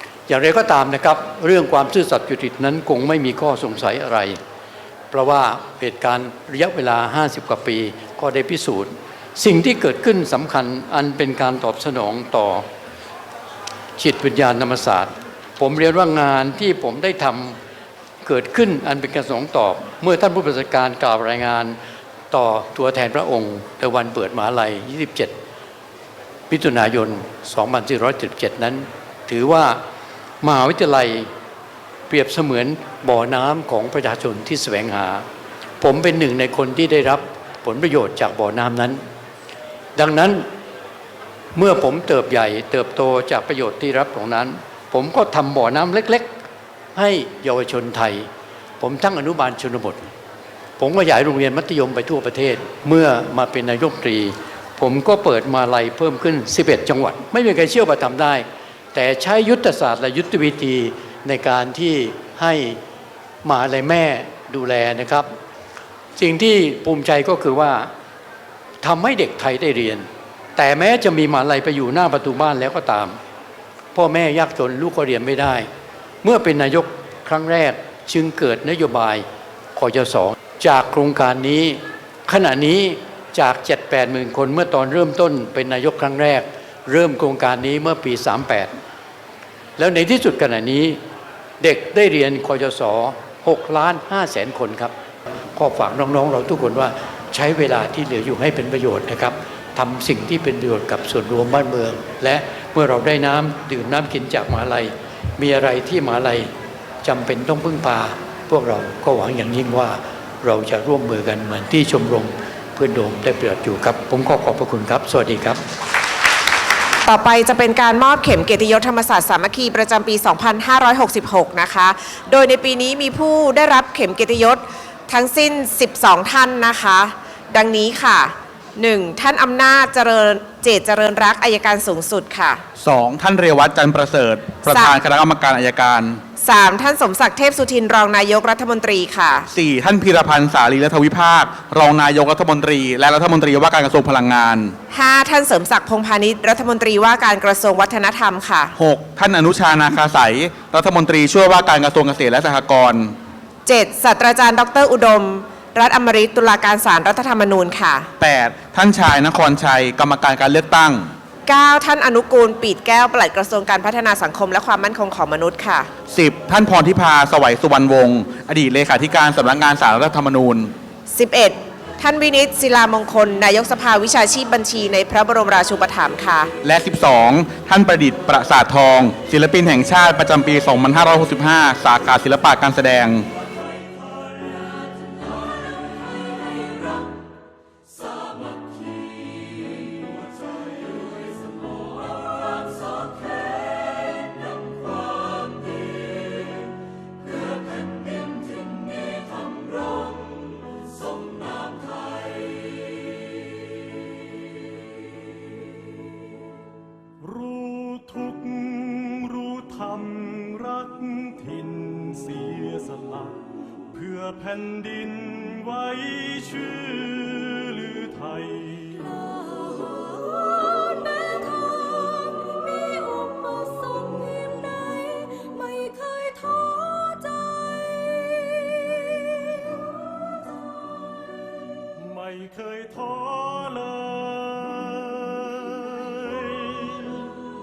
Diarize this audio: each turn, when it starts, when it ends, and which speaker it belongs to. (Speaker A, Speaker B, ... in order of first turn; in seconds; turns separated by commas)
Speaker A: 0.3-4.4, Speaker A: 5.1-12.7, Speaker A: 14.0-17.6, Speaker A: 18.2-21.8, Speaker A: 22.3-25.4, Speaker A: 26.5-29.8, Speaker A: 30.4-31.3, Speaker A: 32.1-35.2, Speaker A: 35.8-39.0, Speaker A: 40.0-40.4, Speaker A: 41.5-46.3, Speaker A: 46.9-48.3, Speaker A: 48.8-50.1, Speaker A: 50.8-62.8, Speaker A: 63.4-65.3, Speaker A: 66.2-67.9, Speaker A: 68.8-73.2, Speaker A: 73.9-75.7, Speaker A: 76.2-79.2, Speaker A: 79.8-88.7, Speaker A: 89.8-91.0, Speaker A: 91.6-94.9, Speaker A: 95.5-106.5, Speaker A: 107.0-115.6, Speaker B: 117.0-132.6, Speaker C: 132.8-136.2, Speaker B: 134.6-134.9, Speaker B: 136.4-139.5, Speaker C: 139.5-144.8, Speaker B: 144.9-148.7, Speaker C: 148.8-153.1, Speaker B: 153.7-158.1, Speaker C: 158.2-161.1, Speaker B: 161.4-165.9, Speaker C: 166.1-170.7, Speaker B: 171.1-176.5, Speaker C: 176.6-183.2, Speaker D: 207.2-219.2, Speaker D: 232.0-237.3